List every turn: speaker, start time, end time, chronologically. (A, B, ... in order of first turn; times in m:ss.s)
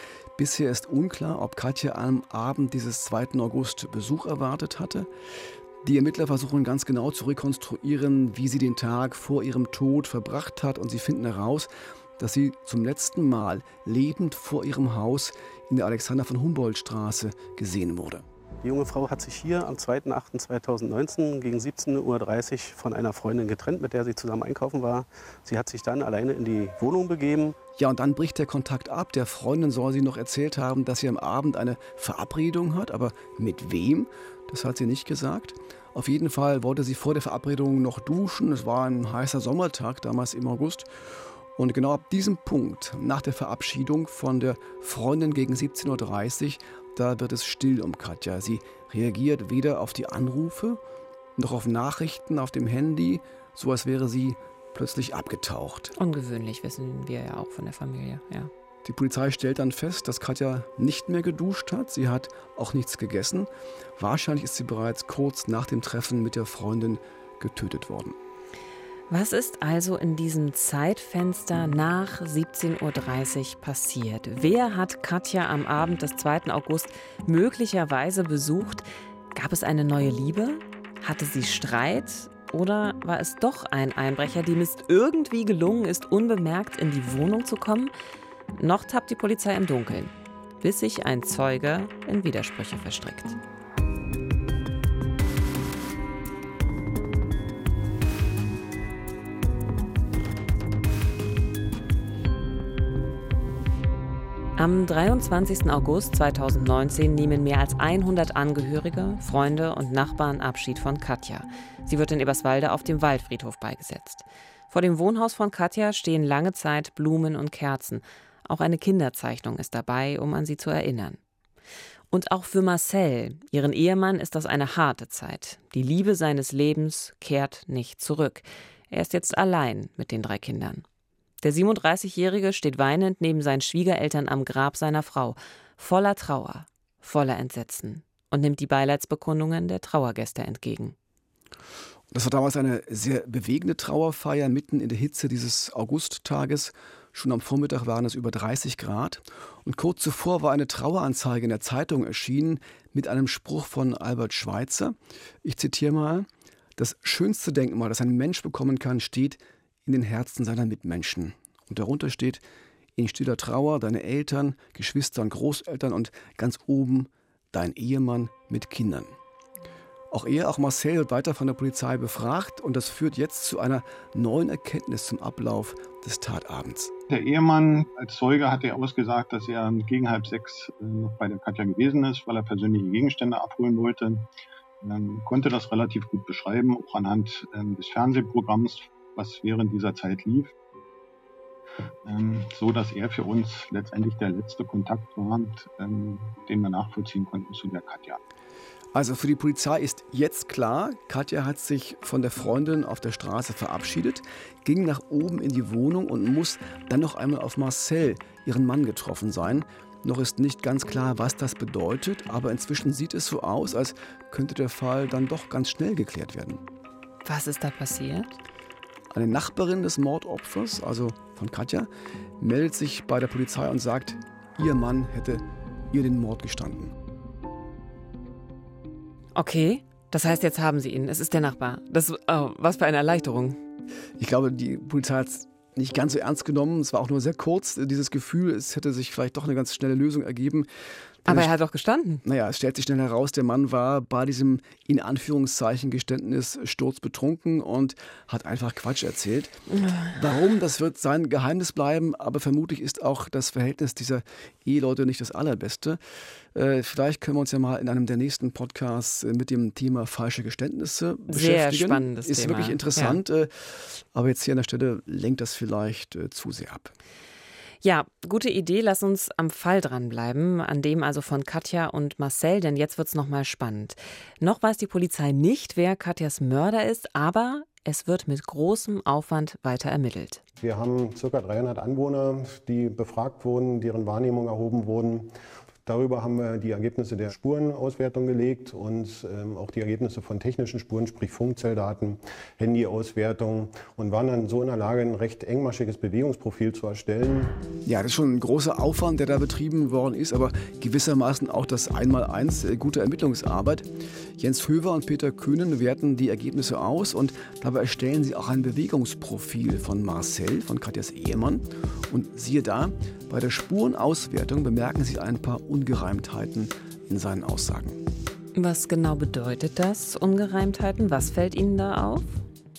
0:00.4-0:05.1 A
0:05.8-0:18.2 A
0:18.6-0:27.6 B
0:27.8-0:50.8 A
0:51.4-0:55.9 A
0:56.0-0:58.5 C
0:58.8-1:08.2 A
1:09.1-1:27.9 C
1:28.6-1:33.4 C
1:44.6-2:01.2 C
2:02.1-2:10.8 C
2:11.4-2:20.9 C
2:22.1-2:42.4 A
2:43.0-2:49.1 A
2:50.1-2:56.9 A
2:57.1-3:04.3 D
3:04.8-3:10.5 D
3:12.0-3:18.2 D
3:18.9-3:36.6 A
3:37.2-3:38.3 C
3:39.1-3:46.9 A
3:49.3-3:53.6 C
3:54.2-4:00.7 A
4:01.2-4:01.5 A
4:01.3-4:02.2 C
4:02.2-4:09.6 A
4:09.8-4:10.1 C
4:10.1-4:16.0 A
4:16.5-4:26.9 A
4:21.3-4:23.2 C
4:27.8-4:40.4 C
4:40.6-4:45.3 E
4:45.9-4:57.6 E
4:57.8-5:18.0 A
5:18.5-5:22.3 C